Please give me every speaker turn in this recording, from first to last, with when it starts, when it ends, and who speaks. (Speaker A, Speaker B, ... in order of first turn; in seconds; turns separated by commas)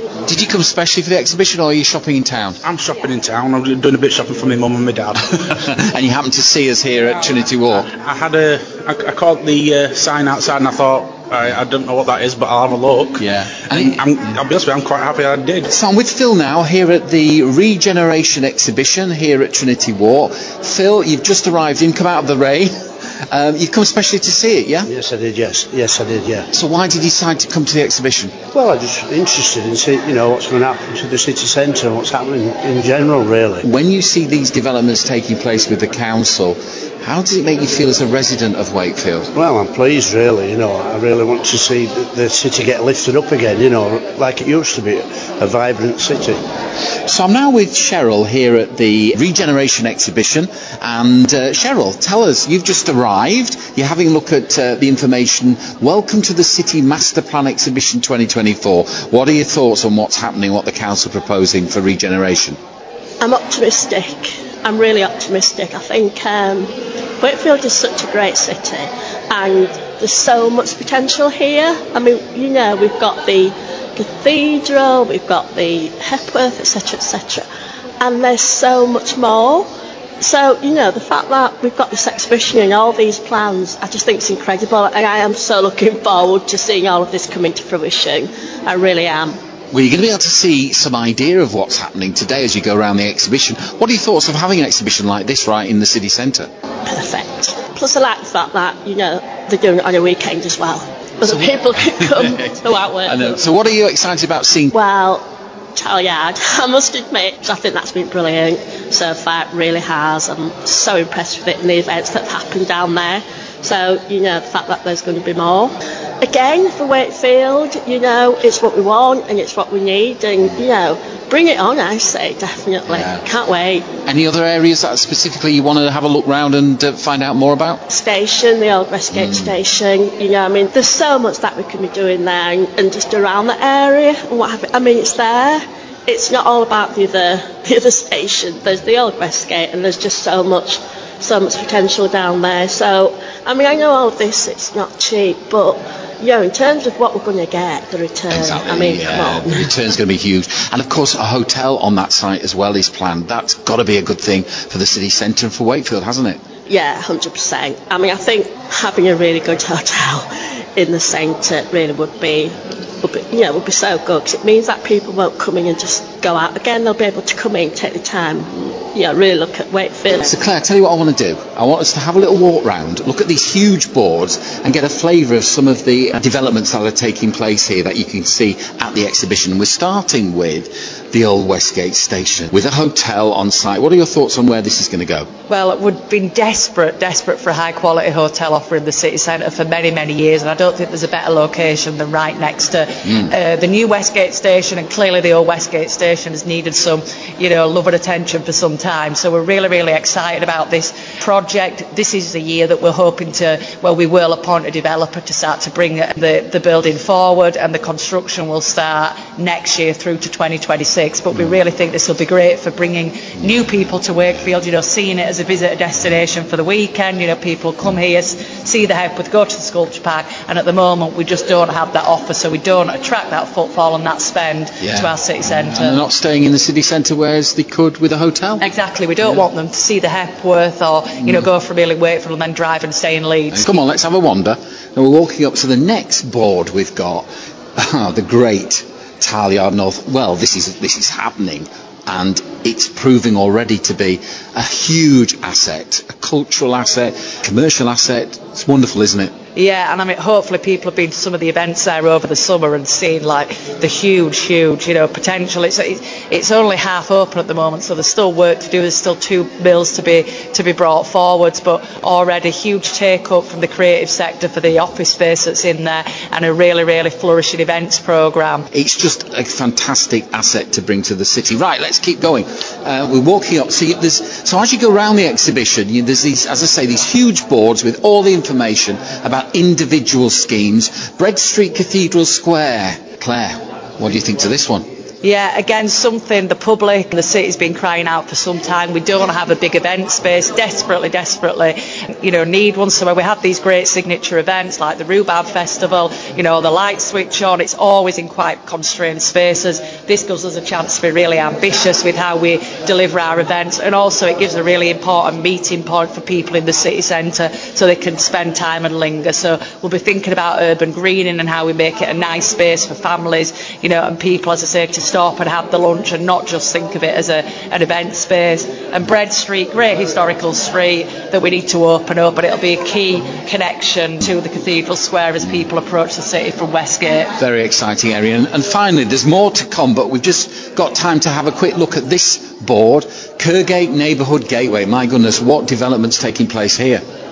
Speaker A: 0.2-2.6, Speaker B: 2.6-5.6, Speaker A: 5.6-7.9, Speaker B: 8.0-15.7, Speaker A: 13.2-14.1, Speaker A: 15.7-22.7, Speaker A: 23.3-24.9, Speaker C: 24.9-26.5, Speaker A: 26.5-28.3, Speaker C: 28.5-33.6, Speaker A: 33.6-39.3, Speaker C: 39.3-46.4, Speaker A: 47.1-62.6, Speaker D: 63.2-66.7, Speaker D: 67.2-77.5, Speaker D: 78.0-79.7, Speaker D: 80.2-89.3, Speaker A: 89.7-96.5, Speaker D: 96.9-103.4, Speaker A: 101.2-104.7, Speaker D: 104.7-123.8, Speaker A: 122.8-123.2, Speaker A: 124.0-127.8, Speaker D: 127.9-149.7, Speaker A: 129.1-129.5, Speaker A: 148.3-156.4, Speaker D: 156.7-170.3, Speaker A: 170.1-185.3, Speaker E: 185.5-226.0, Speaker A: 224.8-228.7, Speaker E: 228.6-233.7, Speaker A: 233.5-249.3, Speaker E: 249.5-268.7, Speaker A: 268.7-284.8, Speaker E: 285.2-327.3, Speaker A: 327.4-337.0